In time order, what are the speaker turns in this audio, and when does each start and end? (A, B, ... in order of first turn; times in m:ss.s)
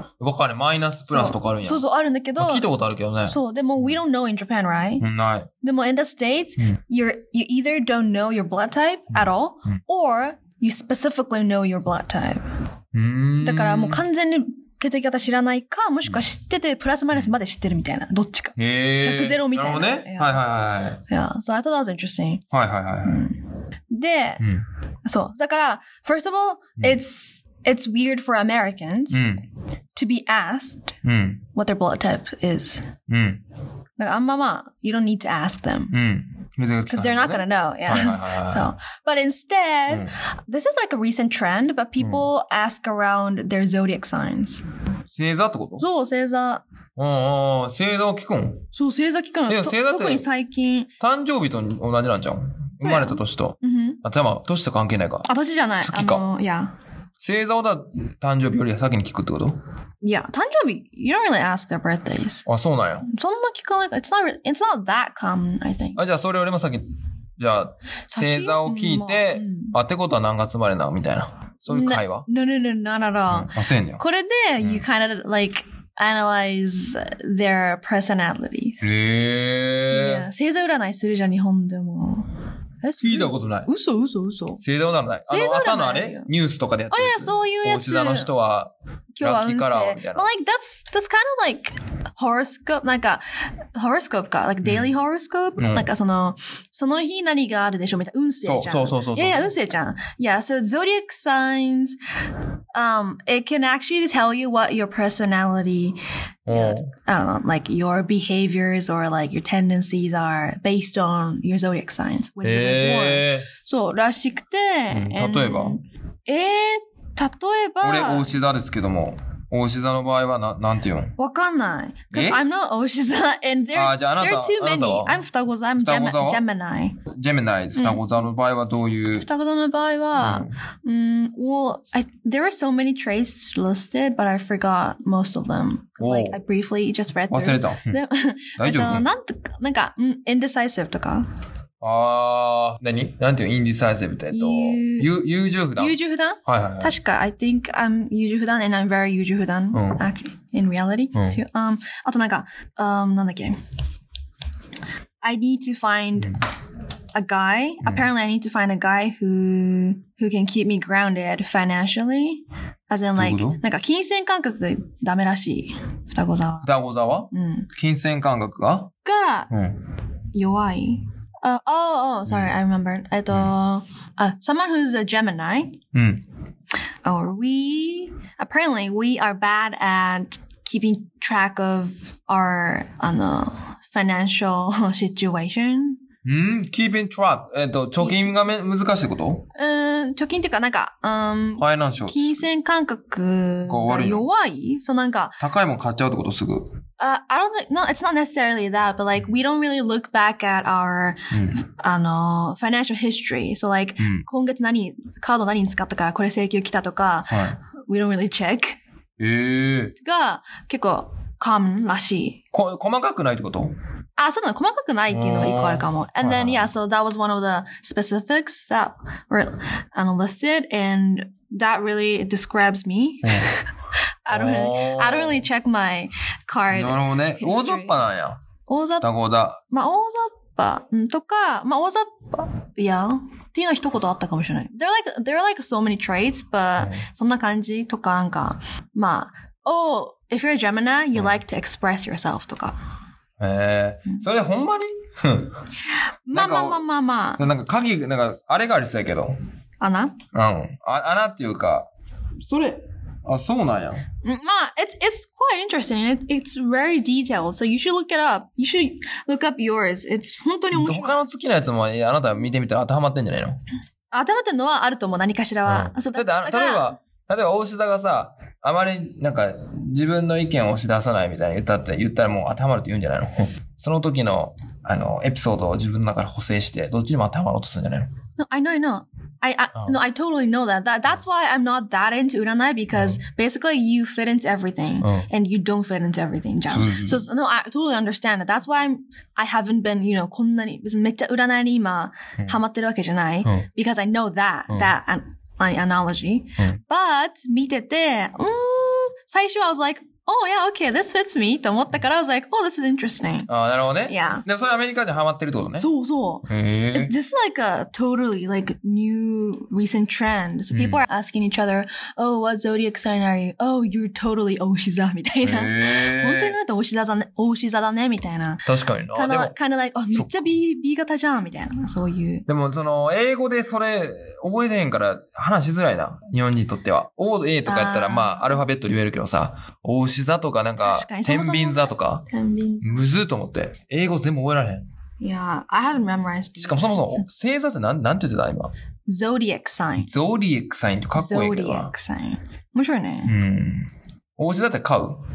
0:00.2-0:01.8 A
0:01.1-0:02.6 B
0:02.4-0:03.4 A
0:03.2-0:05.1 B
0:05.0-0:05.5 A
0:05.6-0:12.4 B
0:12.9-0:14.0 A
0:13.4-0:20.4 B
0:18.6-0:21.0 A
0:21.1-0:22.4 B
0:22.5-0:23.2 A
0:23.0-0:24.4 B
0:25.0-0:29.2 B
0:29.1-0:29.4 A
0:29.9-0:30.9 B
0:31.0-0:31.4 A
0:31.5-0:32.9 B
0:33.1-0:33.4 A
0:34.0-0:36.0 B
0:35.9-0:38.7 A
0:36.9-0:44.6 B
0:42.0-0:42.2 A
0:45.1-0:45.8 A
0:45.8-0:46.6 B
0:47.0-0:48.6 A
0:48.7-0:50.9 B
0:49.5-0:50.2 A
0:51.0-0:55.3 A
0:52.8-0:54.0 B
0:55.2-0:56.7 B
0:55.8-0:56.2 A
0:57.2-0:59.6 A
1:00.0-1:02.4 B
1:02.4-1:03.1 A
1:03.0-1:06.0 B
1:06.0-1:06.8 A
1:07.4-1:12.3 A
1:08.1-1:09.8 B
1:11.7-1:18.8 B
1:13.3-1:14.0 A
1:14.6-1:14.8 A
1:18.8-1:20.3 A
1:19.9-1:22.3 B
1:22.8-1:24.6 B
1:23.0-1:23.7 A
1:24.6-1:30.3 A
1:25.3-1:26.3 B
1:26.9-1:28.3 B
1:29.2-1:33.2 B
1:33.7-1:42.0 B
1:34.6-1:34.9 A
1:35.6-1:35.9 A
1:38.4-1:39.5 A
1:42.7-1:58.4 B
1:46.4-1:46.9 A
1:52.4-1:53.5 A
1:54.9-1:55.8 A
1:57.8-2:01.1 A
2:01.2-2:07.0 B
2:02.1-2:02.4 A
2:03.7-2:05.2 A
2:05.8-2:06.4 A
2:07.1-2:09.3 A
2:07.8-2:08.0 B
2:09.2-2:21.2 B
2:10.2-2:10.6 A
2:16.0-2:16.4 A
2:17.3-2:18.0 A
2:18.6-2:19.0 A
2:21.8-2:27.0 A
2:24.3-2:25.1 B
2:25.8-2:33.5 B
2:29.7-2:30.0 A
2:31.1-2:31.4 A
2:35.2-2:36.4 B
2:37.1-2:46.7 B
2:37.8-2:38.1 A
2:43.2-2:43.6 A
2:46.6-2:48.9 A
2:47.3-2:47.7 B
2:49.0-2:49.5 B
2:49.5-2:49.8 A
2:50.3-2:55.8 B
2:55.9-2:56.2 A
2:57.0-3:06.0 B
3:06.2-3:09.4 A
3:08.0-3:08.3 B
3:09.5-3:15.4 B
3:11.6-3:12.4 A
3:13.7-3:14.2 A
3:15.4-3:16.7 A
3:17.0-3:28.8 B
3:21.3-3:21.6 A
3:24.0-3:24.2 A
3:27.3-3:27.6 A
3:29.2-3:29.9 A
3:30.0-3:32.4 B
3:32.5-3:33.7 A
3:34.2-3:43.7 B
3:35.1-3:36.7 A
3:43.2-3:43.5 A
3:44.2-3:48.1 B
3:44.3-3:45.4 A
3:46.7-3:48.4 A
3:48.7-3:49.1 B
3:49.0-3:49.6 A
3:49.7-4:02.8 B
3:56.8-3:57.0 A
4:03.4-4:05.6 A
4:06.3-4:07.4 B
4:06.3-4:06.8 A
4:07.4-4:09.4 A
4:09.8-4:10.2 B
4:10.3-4:11.9 A
4:12.4-4:14.0 A
4:14.2-4:21.2 B
4:20.7-4:23.6 A
4:24.1-4:26.9 B
4:25.6-4:38.1 A
4:38.4-5:03.5 B
4:42.9-4:43.2 A
4:45.0-4:45.3 A
4:46.7-4:47.2 A
5:03.5-5:05.9 A
5:04.0-5:04.4 B
5:05.8-5:22.4 B
5:06.5-5:07.1 A
5:10.7-5:11.0 A
5:15.4-5:16.6 A
5:18.6-5:19.5 A
5:20.1-5:20.5 A
5:22.5-5:32.2 A
5:27.6-5:28.5 B
5:30.8-5:33.1 B
5:32.8-5:34.8 A
5:35.2-5:37.1 B
5:36.6-5:38.7 A
5:39.1-5:40.1 B
5:40.0-5:41.9 A
5:41.1-5:43.3 B
5:43.2-5:45.2 A